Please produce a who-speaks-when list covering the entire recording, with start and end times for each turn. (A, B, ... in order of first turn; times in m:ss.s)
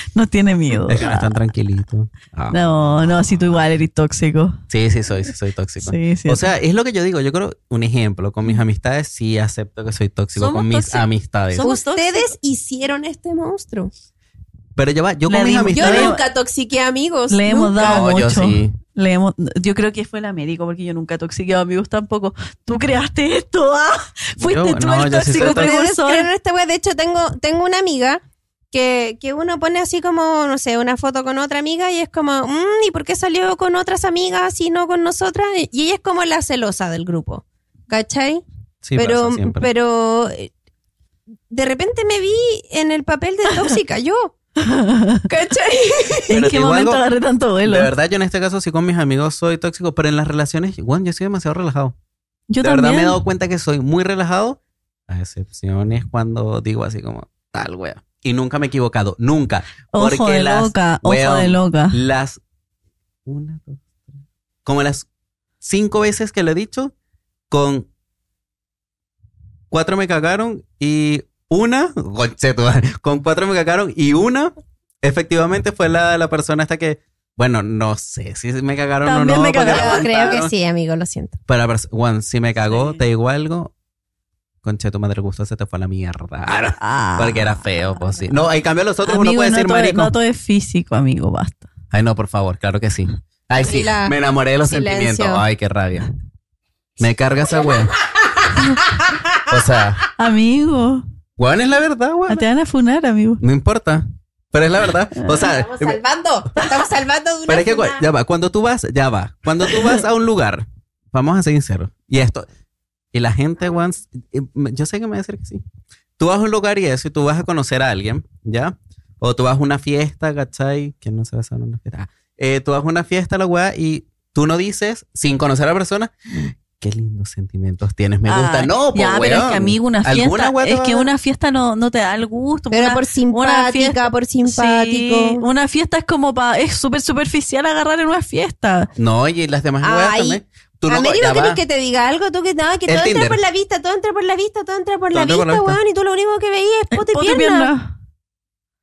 0:00.1-0:01.4 A
0:00.9-0:02.6 B
0:02.5-0:04.6 A
0:04.7-0:11.7 B
0:05.8-0:06.5 A
0:10.4-0:12.3 A
0:11.6-0:13.9 C
0:14.8-0:16.2 B
0:15.3-0:16.2 A
0:15.7-0:18.1 C
0:17.3-0:26.3 A
0:17.8-0:18.7 B
0:24.4-0:25.7 B
0:25.4-0:38.4 C
0:38.8-0:39.7 B
0:39.0-0:40.5 C
0:41.5-0:44.3 C
0:44.6-0:45.3 A
0:45.3-0:46.3 C
0:46.3-0:47.9 A
0:46.3-0:47.0 B
0:47.6-0:52.0 B
0:52.5-0:53.2 A
0:52.6-1:02.4 B
0:59.9-1:02.0 A
1:03.3-1:03.9 B
1:04.6-1:05.1 B
1:05.6-1:06.9 B
1:07.5-1:07.9 B
1:09.7-1:20.5 B
1:19.0-1:20.1 A
1:19.6-1:21.4 C
1:21.5-1:23.7 B
1:22.7-1:23.0 A
1:24.6-1:30.1 B
1:26.8-1:27.6 A
1:29.1-1:31.7 A
1:31.9-1:36.1 B
1:33.6-1:35.4 C
1:37.0-1:38.0 B
1:38.0-1:39.4 C
1:39.5-1:40.0 B
1:40.2-1:41.0 A
1:41.4-1:42.4 B
1:42.3-1:43.4 A
1:43.4-1:46.0 B
1:45.2-1:45.4 A
1:45.4-1:48.0 C
1:47.5-1:52.5 B
1:53.1-1:55.6 B
1:56.2-2:11.1 B
2:08.3-2:18.9 A
2:12.7-2:15.4 C
2:19.0-2:21.6 B
2:19.8-2:27.7 C
2:22.9-2:23.4 B
2:25.1-2:25.8 B
2:26.9-2:27.9 A